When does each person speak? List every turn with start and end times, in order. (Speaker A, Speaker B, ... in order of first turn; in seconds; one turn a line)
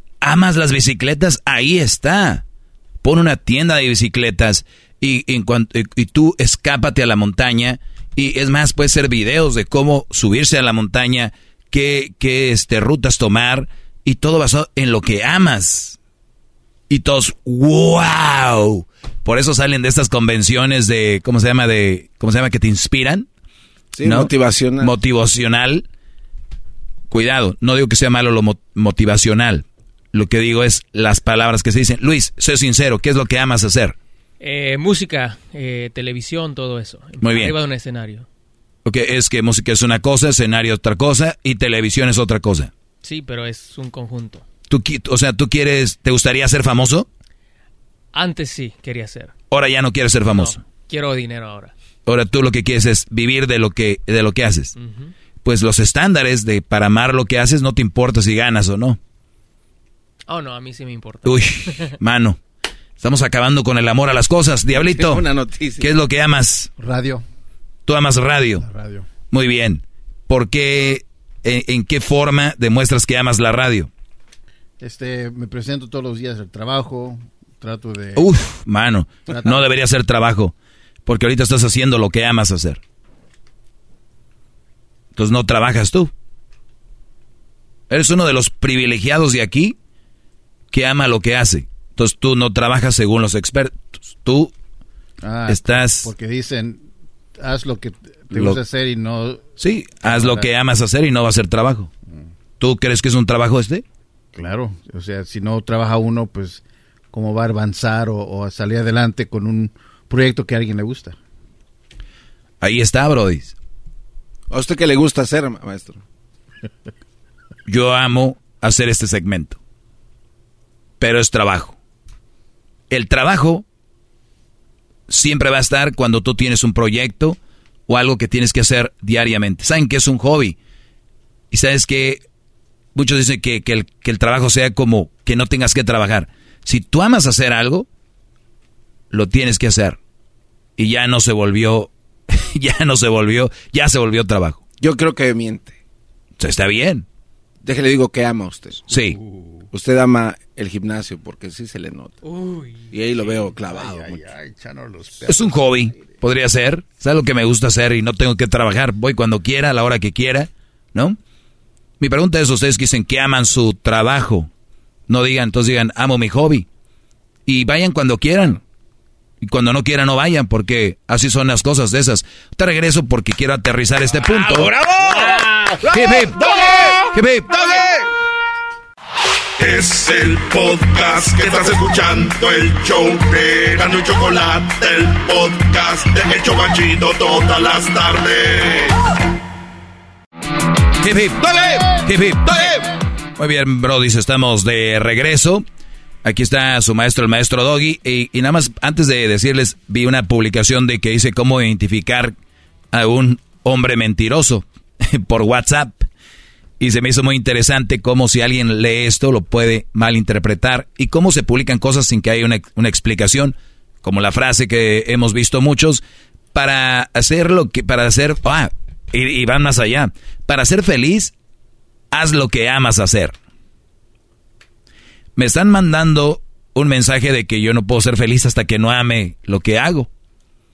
Speaker A: 0.2-2.4
Speaker A: 3.0-16.0
Speaker A: 16.9-23.3
Speaker B: 24.0-24.9
Speaker A: 24.0-25.9
Speaker A: 27.1-34.0
Speaker C: 34.4-38.3
Speaker A: 37.2-37.5
Speaker A: 38.9-42.7
Speaker C: 43.0-44.5
Speaker A: 44.7-47.1
Speaker C: 48.1-49.3
Speaker A: 49.5-50.6
Speaker C: 50.3-51.7
Speaker A: 52.1-54.7
Speaker C: 54.8-55.1
Speaker A: 55.5-59.0
Speaker C: 60.3-61.9
Speaker A: 61.3-62.4
Speaker A: 63.0-65.2
Speaker B: 65.0-65.9
Speaker A: 65.8-66.7
Speaker D: 66.8-67.2
Speaker A: 67.9-68.7
Speaker D: 68.6-69.1
Speaker A: 69.3-73.9
Speaker D: 74.8-78.3
Speaker A: 78.2-80.5
Speaker D: 79.3-79.6
Speaker A: 81.1-82.8
Speaker A: 85.2-86.1
Speaker A: 87.9-89.8
Speaker A: 90.7-94.5
Speaker D: 95.2-96.8
Speaker A: 95.5-96.1
Speaker D: 97.4-99.5
Speaker A: 98.3-98.6
Speaker A: 99.6-101.9
Speaker D: 100.0-100.5
Speaker A: 102.6-103.8
Speaker D: 104.3-111.2
Speaker A: 112.6-113.5
Speaker B: 114.5-116.0
Speaker A: 117.7-119.6
Speaker A: 121.0-121.8
Speaker A: 122.9-123.7
Speaker A: 125.1-130.6
Speaker A: 131.5-132.2
Speaker A: 132.9-137.9
Speaker A: 139.1-140.0
Speaker A: 140.8-144.6
Speaker B: 144.8-145.8
Speaker A: 146.4-147.1
Speaker B: 147.6-148.8
Speaker A: 148.9-149.2
Speaker D: 149.0-149.7
Speaker B: 149.7-152.2
Speaker D: 152.3-152.8
Speaker B: 152.9-154.2
Speaker D: 153.3-156.0
Speaker A: 155.3-161.2
Speaker A: 162.0-164.5
Speaker A: 165.1-166.7
Speaker A: 167.5-168.6
Speaker A: 169.4-175.3
Speaker B: 174.4-178.1
Speaker A: 175.9-176.5
Speaker A: 177.1-177.5
Speaker E: 179.6-189.0
Speaker A: 191.0-191.4
Speaker B: 191.4-191.9
Speaker A: 192.0-192.8
Speaker B: 192.5-192.8
Speaker A: 193.4-195.6
Speaker A: 196.2-202.3
Speaker A: 202.9-206.1
Speaker A: 206.8-216.0
Speaker A: 216.5-221.3
Speaker A: 222.1-223.4
Speaker A: 225.4-230.1